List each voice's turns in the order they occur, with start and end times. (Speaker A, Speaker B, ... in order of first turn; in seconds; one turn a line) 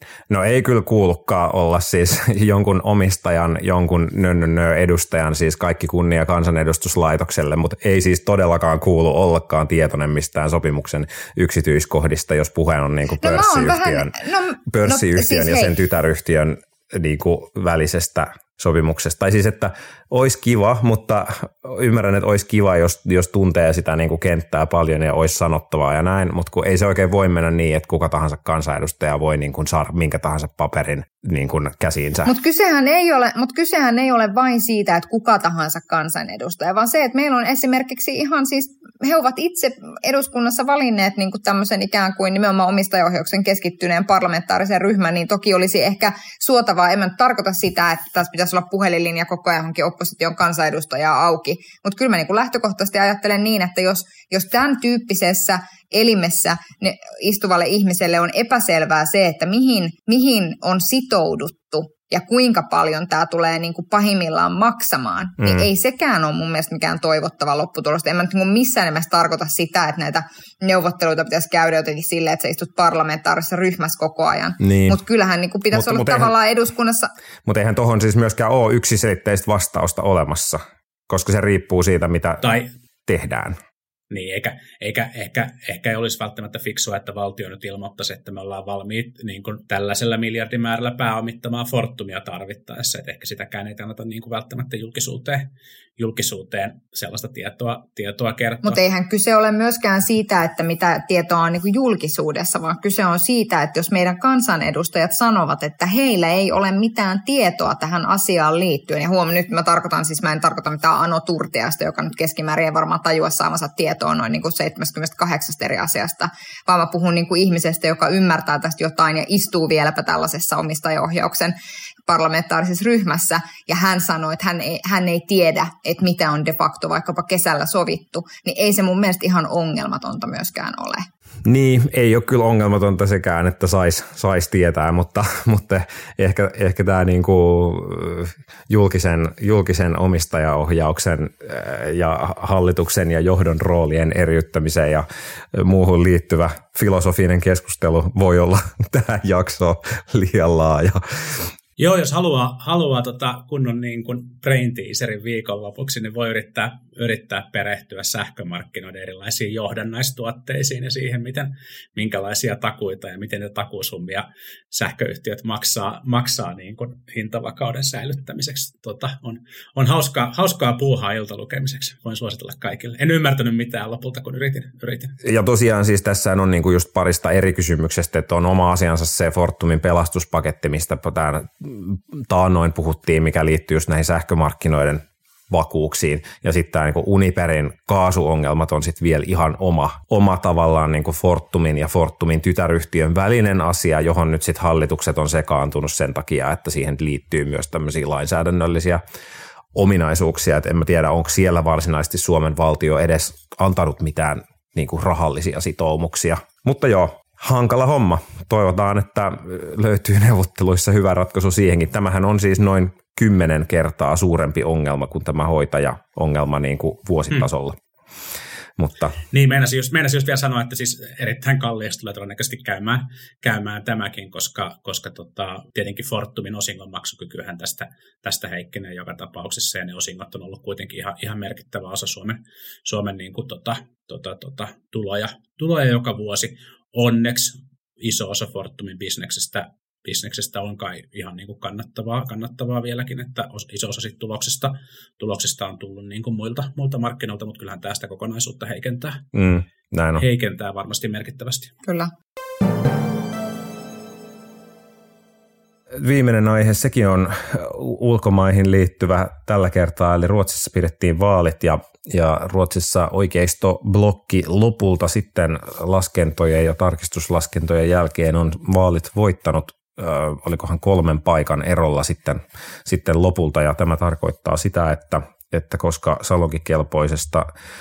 Speaker A: 0.3-32.3
Speaker B: 13.2-15.8
Speaker B: 32.3-77.1
Speaker A: 65.4-65.7
Speaker A: 74.6-75.0
Speaker A: 75.7-76.3
Speaker A: 77.5-82.5
Speaker A: 83.1-83.6
Speaker C: 84.1-98.8
Speaker B: 98.6-121.5
Speaker B: 122.1-131.1
Speaker A: 131.4-151.5
Speaker C: 151.8-175.2
Speaker A: 175.2-199.0
Speaker A: 199.7-217.8
Speaker A: 218.8-219.2
Speaker C: 219.3-249.2
Speaker A: 249.3-250.2
Speaker C: 250.2-251.7
Speaker B: 251.8-252.1
Speaker A: 255.9-277.5